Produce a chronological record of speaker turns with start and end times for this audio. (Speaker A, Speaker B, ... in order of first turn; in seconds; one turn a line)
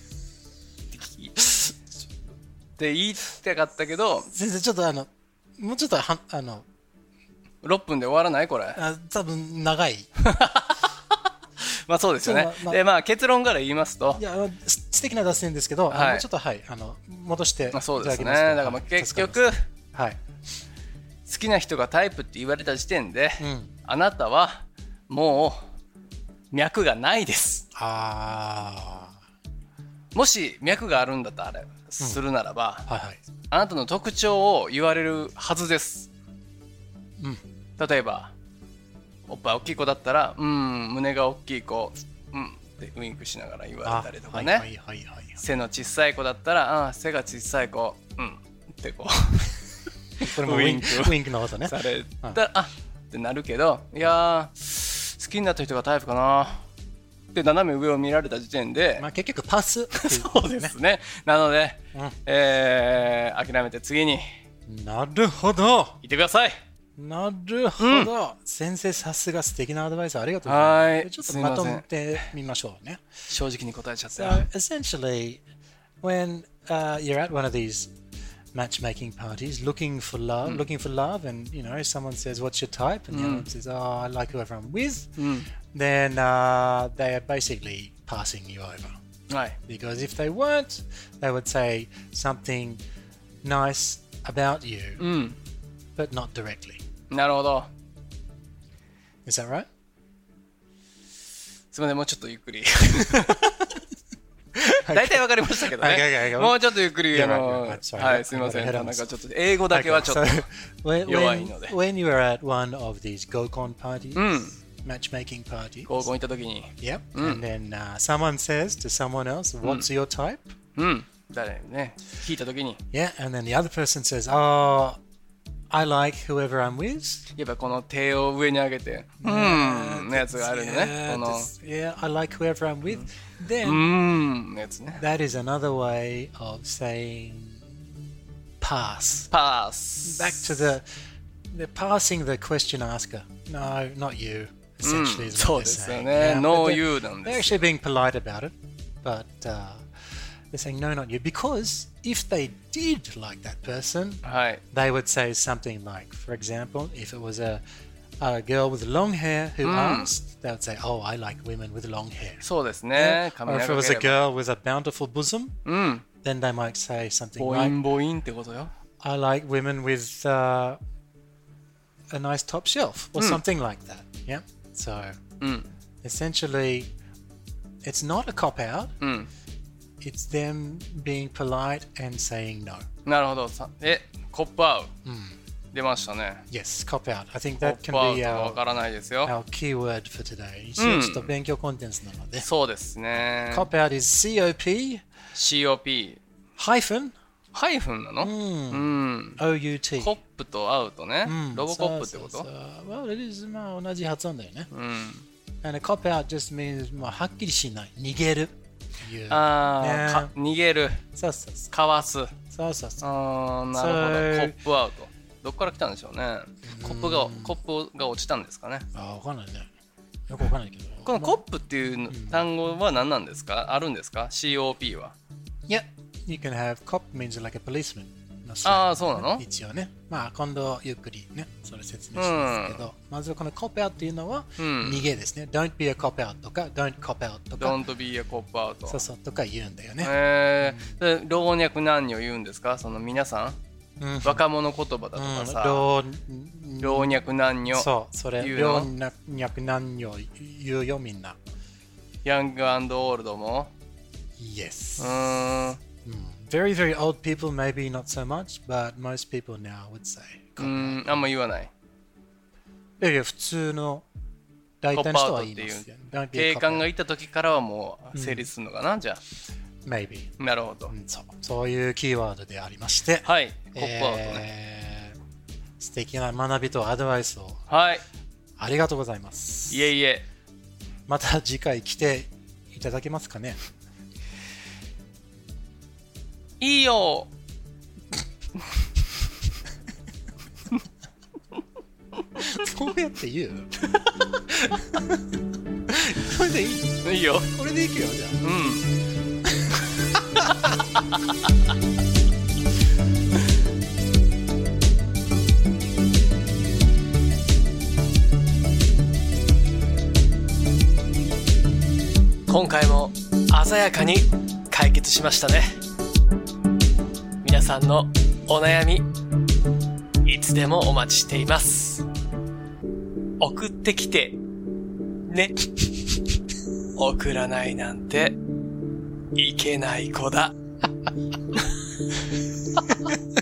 Speaker A: 0.9-1.7
Speaker A: 2.8-4.3
Speaker B: 4.3-6.6
Speaker A: 7.6-8.8
Speaker B: 8.7-10.1
Speaker A: 10.2-11.2
Speaker A: 11.9-14.2
Speaker B: 12.2-12.8
Speaker B: 14.2-20.2
Speaker A: 15.9-16.2
Speaker A: 17.7-19.6
Speaker A: 21.2-25.6
Speaker B: 23.4-23.7
Speaker A: 26.5-27.6
Speaker B: 27.7-29.1
Speaker A: 30.1-32.9
Speaker B: 32.9-33.2
Speaker A: 33.5-36.1
Speaker A: 37.8-38.3
Speaker A: 39.3-44.6
Speaker B: 43.8-45.4
Speaker A: 45.4-49.5
Speaker B: 50.2-52.4
Speaker A: 50.2-56.7
Speaker A: 57.3-59.0
Speaker B: 59.0-60.7
Speaker A: 59.9-64.2
Speaker B: 64.7-66.0
Speaker A: 66.0-66.6
Speaker B: 67.0-73.0
Speaker A: 67.8-68.1
Speaker A: 70.4-72.2
Speaker A: 73.3-74.5
Speaker B: 74.1-75.4
Speaker B: 76.0-77.9
Speaker B: 78.5-85.1
Speaker A: 83.1-83.5
Speaker A: 85.2-85.5
Speaker B: 85.7-88.9
Speaker A: 89.3-89.6
Speaker B: 89.7-92.8
Speaker B: 93.4-95.0
Speaker A: 95.0-95.3
Speaker B: 96.0-96.8
Speaker A: 97.1-97.7
Speaker B: 99.2-99.7
Speaker A: 101.7-103.7
Speaker A: 104.7-110.4
Speaker B: 104.8-109.1
Speaker B: 109.7-116.1
Speaker A: 111.0-111.8
Speaker A: 114.1-114.5
Speaker A: 115.9-117.4
Speaker B: 116.8-120.5
Speaker A: 119.6-119.9
Speaker A: 120.8-122.8
Speaker B: 122.9-125.0
Speaker B: 125.7-127.2
Speaker A: 127.3-131.5
Speaker B: 129.2-133.9
Speaker A: 133.6-135.0
Speaker B: 134.9-137.9
Speaker B: 138.6-139.3
Speaker A: 139.3-140.7
Speaker B: 140.0-140.8
Speaker B: 141.5-149.8
Speaker A: 144.8-147.6
Speaker B: 150.5-157.6
Speaker A: 154.2-154.6
Speaker B: 158.2-165.6
Speaker A: 159.6-160.1
Speaker A: 162.4-164.2
Speaker A: 165.7-166.0
Speaker B: 166.2-167.8
Speaker A: 167.4-168.7
Speaker B: 169.0-170.8
Speaker B: 172.1-175.1
Speaker A: 173.2-173.4
Speaker A: 175.4-175.7
Speaker B: 176.0-176.9
Speaker B: 177.8-178.9
Speaker A: 179.0-179.3
Speaker B: 180.0-182.8
Speaker A: 183.1-184.9
Speaker B: 185.0-185.3
Speaker A: 185.7-186.4
Speaker B: 186.5-188.6
Speaker A: 187.6-189.3
Speaker B: 189.2-192.5
Speaker A: 190.8-191.3
Speaker A: 192.4-193.7
Speaker B: 193.5-195.0
Speaker A: 195.3-196.2
Speaker B: 196.6-197.1
Speaker A: 197.5-199.4
Speaker B: 198.2-200.1
Speaker A: 200.0-202.5
Speaker B: 201.2-204.7
Speaker A: 204.7-205.2
Speaker B: 205.6-210.3
Speaker A: 209.3-211.0
Speaker B: 211.2-211.7
Speaker A: 211.7-212.3
Speaker B: 212.5-213.0
Speaker A: 213.0-218.8
Speaker B: 213.7-214.6
Speaker B: 216.6-217.6
Speaker B: 218.9-219.7
Speaker B: 220.3-221.4
Speaker A: 221.1-225.1
Speaker B: 222.1-222.4
Speaker B: 225.7-237.8
Speaker A: 228.6-229.4
Speaker A: 232.1-232.9
Speaker A: 234.6-235.1
Speaker A: 237.6-239.0
Speaker B: 238.8-241.0
Speaker A: 240.0-243.6
Speaker B: 244.0-244.4
Speaker A: 244.2-245.9
Speaker B: 245.1-251.4
Speaker A: 246.8-248.9
Speaker A: 252.2-253.7
Speaker B: 254.4-255.3
Speaker A: 255.0-255.8
Speaker B: 256.0-261.3
Speaker A: 260.6-261.7
Speaker B: 263.0-264.0
Speaker B: 264.8-266.9
Speaker A: 264.9-269.2
Speaker B: 268.1-268.5
Speaker B: 269.8-270.3
Speaker A: 270.4-270.9
Speaker B: 270.9-275.1
Speaker A: 273.2-274.4
Speaker B: 275.8-277.6
Speaker A: 277.7-278.0
Speaker B: 278.6-279.9
Speaker A: 279.7-280.2
Speaker B: 281.1-283.6
Speaker A: 286.6-287.3
Speaker B: 292.4-293.7
Speaker B: 294.6-295.2
Speaker B: 295.9-298.4
Speaker A: 297.0-297.5
Speaker A: 298.4-298.9
Speaker B: 299.6-299.9
Speaker A: 312.5-315.8
Speaker A: 317.4-319.1
Speaker A: 320.2-322.0
Speaker A: 323.4-324.4
Speaker A: 325.3-325.5
Speaker A: 327.0-328.4
Speaker A: 329.3-330.5